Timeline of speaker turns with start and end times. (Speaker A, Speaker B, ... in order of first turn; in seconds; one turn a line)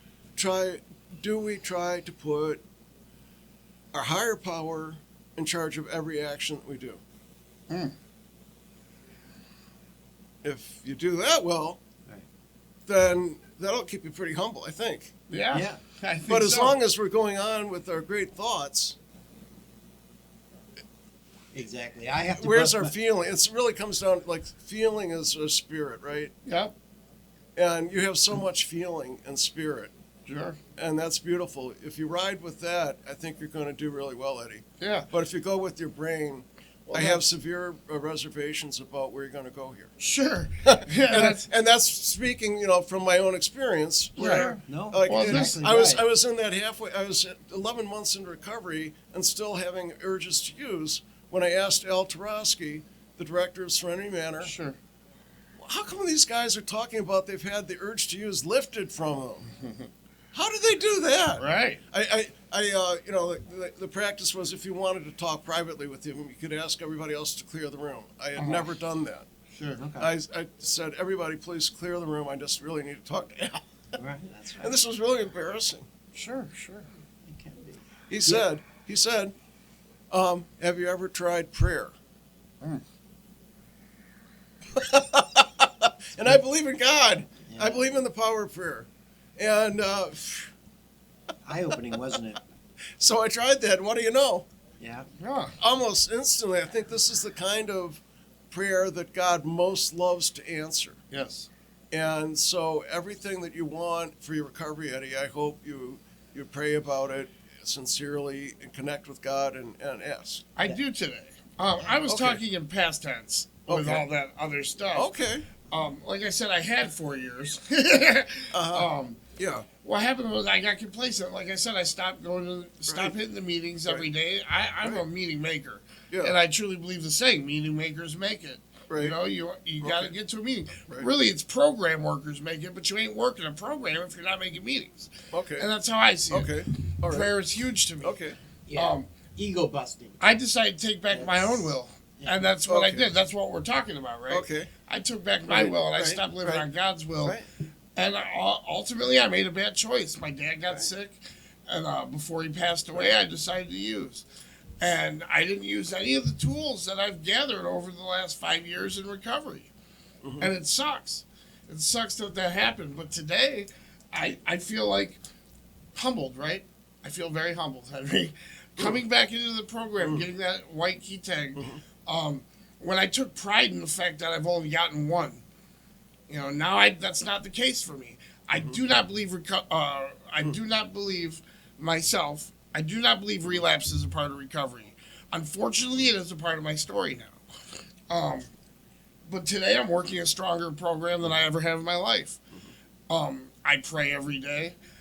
Speaker A: 0.4-2.6
Speaker A: 3.9-7.0
Speaker B: 7.7-7.9
Speaker A: 10.4-11.8
Speaker A: 12.9-15.1
Speaker B: 15.3-16.8
Speaker C: 15.5-15.8
Speaker A: 16.3-19.0
Speaker C: 21.5-22.9
Speaker A: 22.4-26.3
Speaker B: 26.4-26.7
Speaker A: 27.6-29.9
Speaker B: 30.3-30.6
Speaker A: 30.8-39.9
Speaker B: 34.8-35.1
Speaker C: 36.9-37.2
Speaker B: 40.0-41.5
Speaker A: 40.7-54.5
Speaker B: 44.2-45.6
Speaker C: 44.2-46.1
Speaker B: 54.4-54.8
Speaker A: 55.6-59.5
Speaker B: 59.5-59.9
Speaker A: 60.3-69.3
Speaker B: 61.4-61.8
Speaker B: 68.4-68.7
Speaker B: 69.5-69.8
Speaker C: 69.8-70.1
Speaker A: 70.0-73.8
Speaker C: 74.0-74.8
Speaker A: 74.6-75.9
Speaker B: 76.1-76.9
Speaker C: 77.2-78.5
Speaker A: 78.1-79.3
Speaker A: 80.1-81.9
Speaker A: 84.7-90.5
Speaker C: 87.5-87.8
Speaker C: 91.5-92.4
Speaker A: 93.0-94.5
Speaker C: 94.8-95.1
Speaker B: 95.2-95.6
Speaker A: 95.6-101.0
Speaker B: 101.1-101.5
Speaker A: 101.9-110.5
Speaker B: 110.6-115.1
Speaker A: 112.1-112.4
Speaker A: 113.7-114.0
Speaker A: 115.0-115.5
Speaker B: 115.7-119.2
Speaker A: 118.5-119.7
Speaker B: 119.8-138.2
Speaker A: 122.9-123.2
Speaker A: 126.1-126.4
Speaker A: 128.9-129.2
Speaker A: 129.8-130.1
Speaker A: 135.3-135.7
Speaker A: 136.3-137.3
Speaker A: 138.0-138.4
Speaker C: 138.7-140.2
Speaker B: 138.7-139.1
Speaker B: 140.2-147.4
Speaker C: 141.1-142.4
Speaker A: 142.7-143.1
Speaker A: 144.3-144.7
Speaker A: 145.4-146.7
Speaker A: 147.2-147.5
Speaker B: 148.0-154.2
Speaker B: 154.8-159.7
Speaker B: 160.4-165.2
Speaker B: 165.9-175.4
Speaker A: 170.0-170.3
Speaker A: 171.6-171.8
Speaker B: 176.3-187.4
Speaker A: 178.5-178.8
Speaker B: 188.1-188.5
Speaker B: 189.3-192.4
Speaker B: 193.1-194.8